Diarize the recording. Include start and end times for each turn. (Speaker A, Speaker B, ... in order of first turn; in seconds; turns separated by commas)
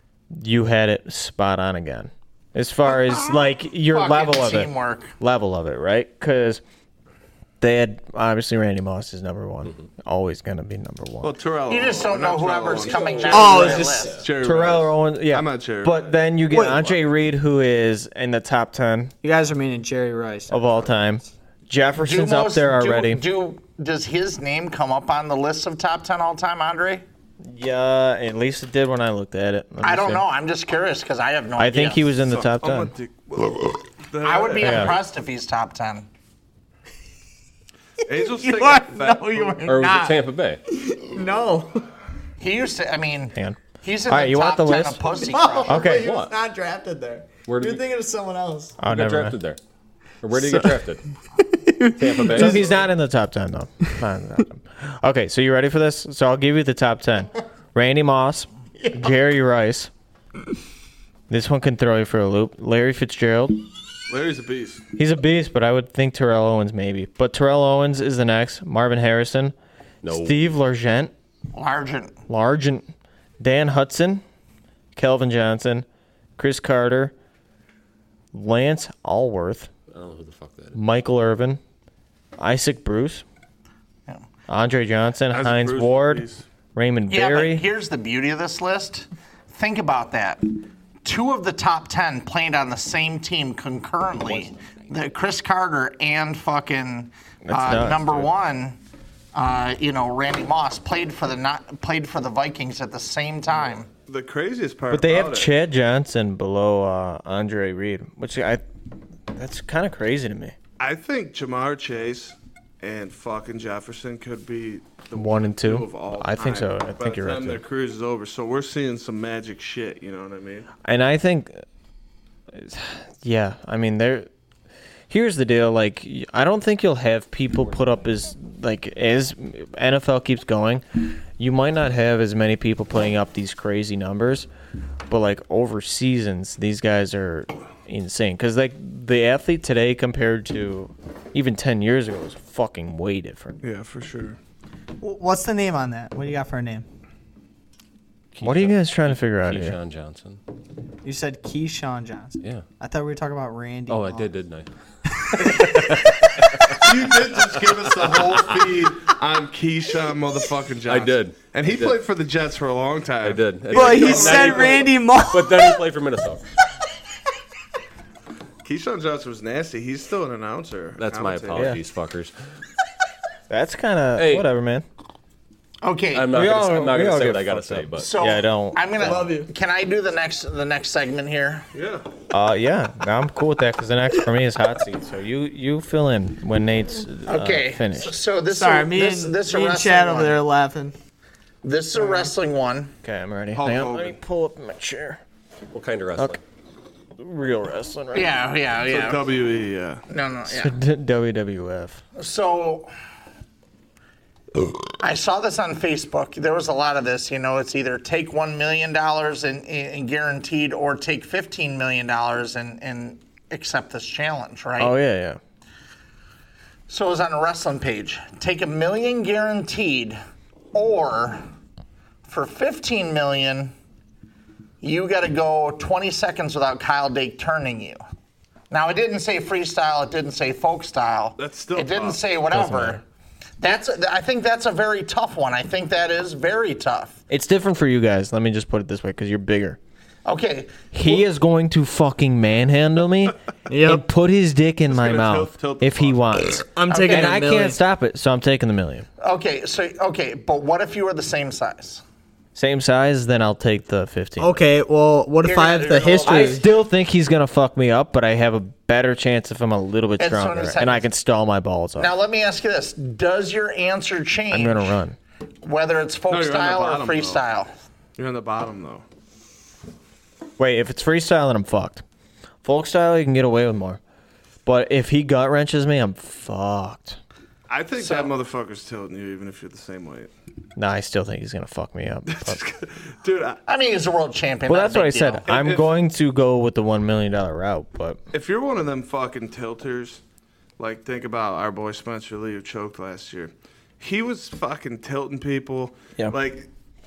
Speaker A: 0.3-6.6, Speaker B: 3.9-5.1, Speaker A: 7.6-11.4, Speaker C: 11.2-16.2, Speaker B: 11.7-14.2, Speaker D: 12.7-14.3, Speaker E: 13.3-14.1, Speaker A: 14.4-19.1, Speaker E: 16.5-16.9, Speaker E: 19.2-20.7, Speaker A: 20.5-23.2, Speaker B: 22.0-27.0, Speaker A: 27.4-30.2, Speaker B: 29.8-32.1, Speaker A: 31.6-32.9, Speaker C: 32.2-35.0, Speaker B: 34.2-36.1, Speaker A: 34.6-35.0, Speaker C: 38.0-39.6, Speaker E: 38.1-41.9, Speaker D: 39.6-40.6, Speaker B: 42.4-46.0, Speaker A: 43.4-45.0, Speaker E: 45.1-48.8, Speaker A: 45.7-46.1, Speaker D: 45.9-46.3, Speaker D: 47.5-47.8, Speaker A: 48.8-49.4, Speaker D: 48.8-49.6, Speaker D: 50.2-51.0, Speaker E: 50.4-50.8, Speaker E: 51.4-52.7, Speaker D: 52.0-52.8, Speaker A: 52.3-59.9, Speaker E: 58.8-59.1, Speaker A: 61.3-63.6, Speaker C: 64.1-64.8, Speaker A: 65.0-69.5, Speaker D: 70.0-70.4, Speaker A: 70.1-71.1, Speaker B: 71.5-72.2, Speaker A: 72.3-72.9, Speaker A: 73.4-74.2, Speaker A: 75.0-75.9, Speaker A: 76.4-77.1, Speaker A: 78.3-79.7, Speaker D: 79.9-80.8, Speaker A: 80.7-81.6, Speaker A: 82.4-83.2, Speaker A: 84.5-87.6, Speaker C: 85.3-86.4, Speaker B: 87.1-90.4, Speaker B: 91.0-98.8, Speaker D: 94.3-94.9, Speaker A: 97.5-98.3, Speaker B: 99.3-103.9, Speaker C: 104.1-105.5, Speaker A: 104.9-108.6, Speaker A: 109.3-110.6, Speaker C: 110.8-120.7, Speaker A: 115.1-117.6, Speaker A: 120.8-121.7, Speaker A: 122.5-124.3, Speaker A: 125.1-134.5, Speaker A: 135.1-143.6, Speaker C: 143.6-144.4, Speaker E: 145.0-146.9, Speaker D: 148.3-150.4, Speaker A: 148.4-149.8, Speaker E: 151.0-154.3, Speaker D: 153.9-154.7, Speaker E: 155.2-155.9, Speaker D: 155.3-158.7, Speaker C: 156.7-164.9, Speaker D: 160.8-162.0, Speaker D: 163.2-166.4, Speaker E: 163.7-165.8, Speaker C: 168.6-171.8, Speaker D: 171.0-172.3, Speaker A: 171.6-171.8, Speaker A: 173.5-174.8, Speaker D: 174.2-174.5, Speaker B: 175.8-176.4, Speaker D: 176.1-178.1, Speaker A: 176.3-179.2, Speaker B: 178.0-181.7, Speaker E: 179.0-179.5, Speaker C: 181.7-182.1, Speaker A: 182.3-188.2, Speaker B: 187.3-190.4, Speaker E: 188.5-190.9, Speaker B: 191.6-192.9, Speaker A: 193.0-195.2, Speaker C: 193.5-194.2, Speaker D: 195.7-196.4, Speaker A: 197.2-198.3, Speaker B: 198.1-199.2, Speaker C: 198.9-200.0, Speaker B: 200.1-200.8, Speaker A: 200.5-202.0, Speaker B: 202.2-202.9, Speaker B: 205.0-214.9, Speaker A: 214.8-215.4, Speaker B: 216.9-220.2, Speaker B: 220.7-221.4, Speaker B: 222.3-223.7, Speaker B: 224.8-228.0, Speaker B: 228.7-233.0, Speaker C: 231.4-232.2, Speaker A: 232.5-233.0, Speaker B: 233.6-237.2, Speaker A: 237.3-239.8, Speaker B: 240.3-241.2, Speaker A: 240.9-249.1, Speaker E: 243.7-244.1, Speaker C: 244.9-246.5, Speaker E: 246.7-247.8, Speaker B: 246.9-247.4, Speaker B: 249.2-252.0, Speaker A: 252.6-254.6, Speaker E: 254.4-256.7, Speaker B: 255.4-256.6, Speaker A: 256.2-262.1, Speaker B: 260.2-261.1, Speaker B: 262.0-265.0, Speaker A: 264.5-265.2, Speaker B: 265.6-267.7, Speaker C: 266.3-267.4, Speaker C: 268.2-269.0, Speaker A: 270.6-272.0, Speaker A: 272.6-274.0, Speaker A: 274.6-277.2, Speaker C: 277.7-280.3, Speaker B: 278.0-278.3, Speaker A: 280.8-282.6, Speaker C: 282.3-283.6, Speaker B: 283.7-285.5, Speaker A: 284.7-288.2, Speaker C: 285.5-285.9, Speaker C: 288.3-290.2, Speaker C: 290.8-296.7